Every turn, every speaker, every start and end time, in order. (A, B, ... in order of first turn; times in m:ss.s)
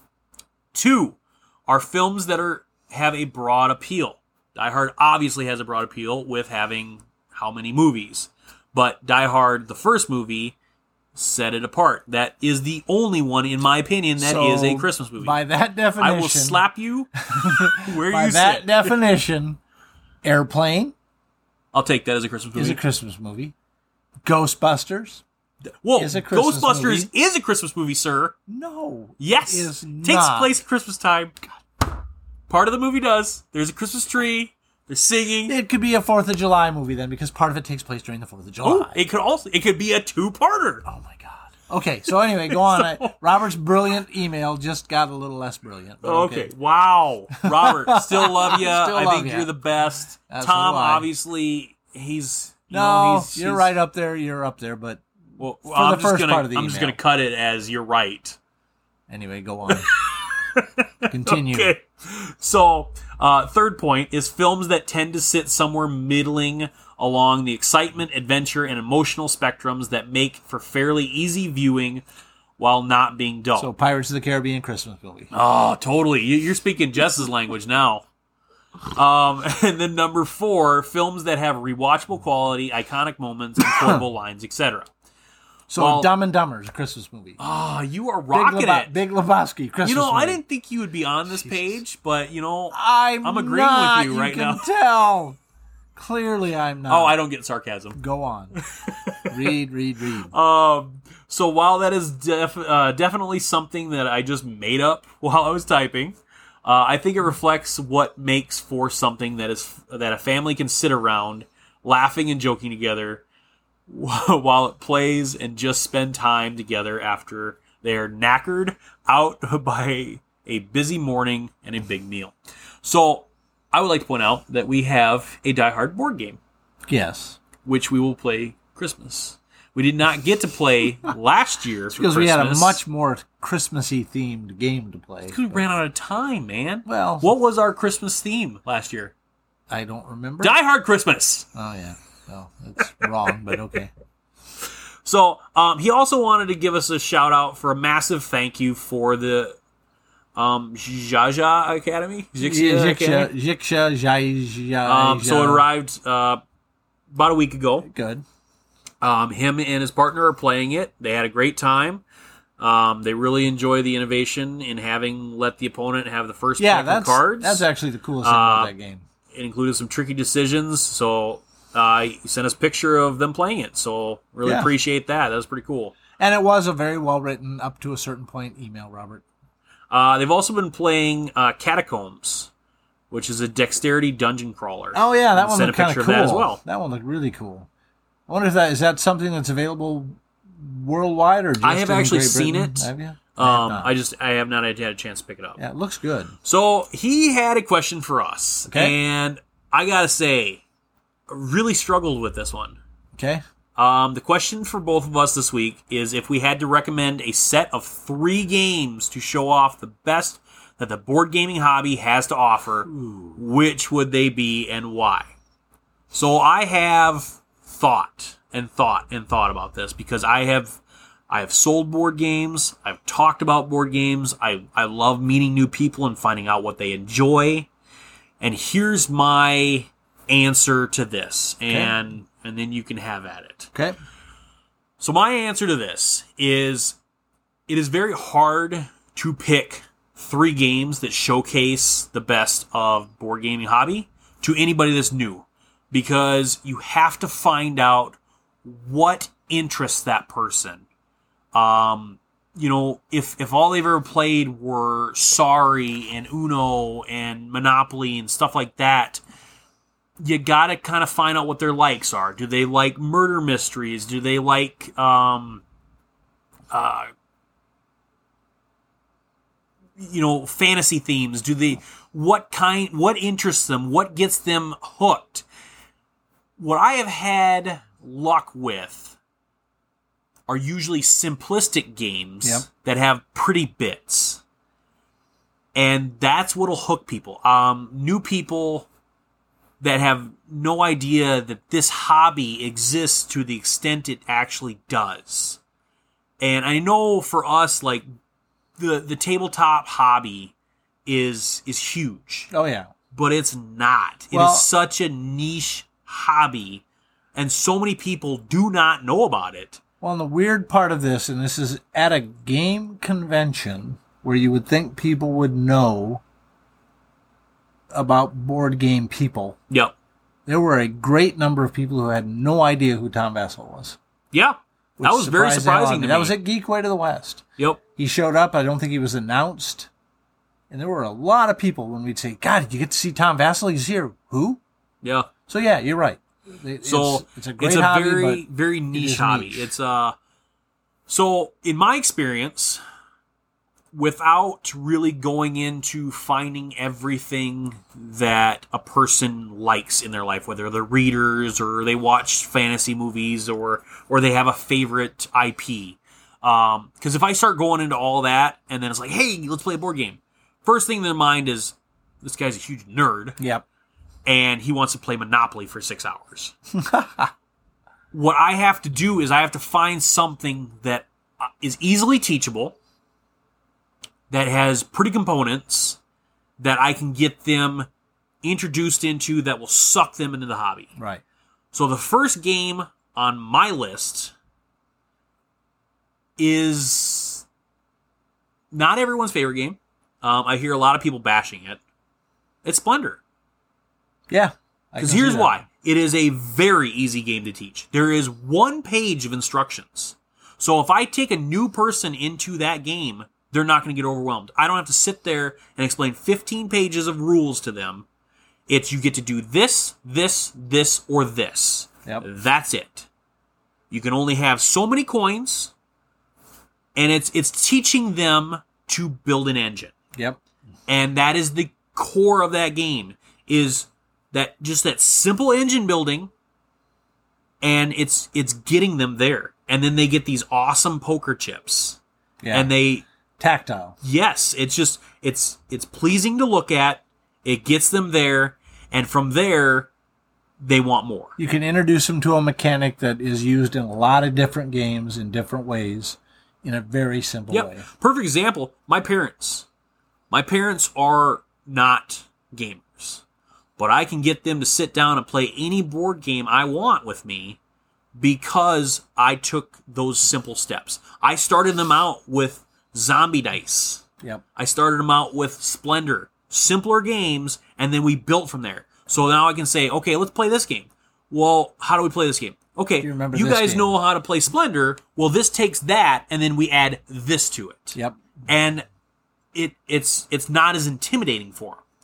0:00.7-0:10.5 A
0:11.1-0:15.4 A
0:14.2-0:16.6 B
0:16.0-0:18.9 A
0:17.2-0:19.6 B
0:20.2-0:20.9 B
0:21.7-0:22.8 A
0:22.5-0:23.5 B
0:24.2-0:25.2 B
0:25.8-0:28.4 A
0:26.0-0:27.1 B
0:28.5-0:30.5 B
0:29.2-0:31.3 A
0:32.5-0:35.5 A
0:35.4-0:39.0 B
0:38.6-0:40.8 A
0:40.8-0:46.5 B
0:42.5-0:43.1 A
0:46.0-0:53.7 A
0:47.5-0:49.5 B
0:50.3-0:51.1 B
0:52.7-0:55.0 B
0:55.4-0:58.4 A
0:55.7-0:57.0 B
0:59.1-0:59.9 B
0:59.7-1:12.0 A
1:01.1-1:01.7 B
1:12.6-1:13.7 A
1:13.5-1:15.3 B
1:15.3-1:18.0 A
1:18.9-1:24.9 A
1:25.7-1:26.1 A
1:25.7-1:27.4 B
1:27.4-1:28.9 A
1:28.3-1:30.4 B
1:29.8-1:34.6 A
1:31.3-1:31.8 B
1:32.7-1:35.4 B
1:36.0-1:37.2 B
1:36.9-1:38.0 A
1:38.0-1:38.6 B
1:38.6-1:39.5 A
1:39.3-1:40.3 B
1:40.3-1:53.2 A
1:53.9-2:06.4 A
2:06.9-2:07.4 B
2:07.6-2:12.8 A
2:11.9-2:15.6 B
2:15.3-2:19.1 A
2:16.8-2:17.3 B
2:19.7-2:20.6 B
2:20.4-2:21.4 A
2:21.5-2:23.9 B
2:25.0-2:29.6 A
2:30.4-2:33.3 A
2:32.4-2:35.6 B
2:34.8-2:36.4 A
2:37.1-2:37.9 A
2:37.8-2:38.2 B
2:39.0-2:42.0 A
2:42.6-2:47.6 A
2:46.6-2:49.0 B
2:48.2-2:48.7 A
2:49.3-2:56.0 A
2:54.4-2:54.7 B
2:56.2-2:59.2 B
2:59.9-3:02.5 A
3:03.1-3:06.6 A
3:04.9-3:07.7 B
3:08.3-3:13.9 B
3:11.6-3:15.6 A
3:15.6-3:16.3 B
3:16.4-3:20.6 A
3:18.6-3:19.0 B
3:21.3-3:22.8 A
3:23.1-3:23.4 B
3:23.8-3:35.3 A
3:32.9-3:33.4 B
3:36.1-3:40.8 A
3:41.3-3:47.7 A
3:48.4-3:53.7 A
3:51.7-3:51.9 B
3:55.0-3:57.0 A
3:57.7-4:10.8 A
4:11.5-4:19.2 A
4:20.2-4:25.6 A
4:26.7-4:27.1 A
4:30.0-4:35.4 A
4:36.6-4:39.2 A
4:40.5-4:44.4 A
4:45.7-4:48.9 A
4:49.8-4:55.6 A
4:56.4-4:58.0 A
4:58.8-5:00.5 A
5:01.0-5:02.5 A
5:02.5-5:02.9 B
5:03.1-5:06.8 A
5:04.3-5:04.7 B
5:07.3-5:09.8 A
5:10.0-5:16.2 B
5:17.9-5:19.6 B
5:20.4-5:24.0 B
5:24.3-5:26.4 A
5:25.0-5:27.4 B
5:28.0-5:29.9 B
5:30.7-5:34.6 B
5:35.0-5:35.3 A
5:35.5-5:39.7 B
5:36.8-5:40.1 A
5:41.1-5:42.8 A
5:43.9-6:03.4 A
6:03.4-6:03.6 B
6:04.2-6:06.5 A
6:06.7-6:07.3 B
6:08.1-6:12.8 A
6:14.3-6:16.0 A
6:16.6-6:17.9 A
6:18.4-6:20.9 A
6:21.0-6:21.2 B
6:21.7-6:24.3 A
6:26.4-6:27.4 A
6:28.7-6:31.8 A
6:32.6-6:33.2 A
6:34.3-6:35.6 B
6:35.0-6:48.0 A
6:48.7-6:53.1 A
6:53.9-6:55.7 A
6:57.0-6:59.9 A
7:00.9-7:06.3 A
7:07.6-7:12.0 A
7:12.4-7:12.7 B
7:12.5-7:13.0 A
7:13.4-7:13.9 B
7:14.0-7:19.9 A
7:20.6-7:21.3 A
7:21.4-7:27.8 B
7:27.5-7:29.6 A
7:30.3-7:33.2 A
7:33.8-7:37.6 A
7:38.2-7:44.0 A
7:44.6-7:58.8 A
7:53.0-7:54.0 B
7:59.5-8:01.8 A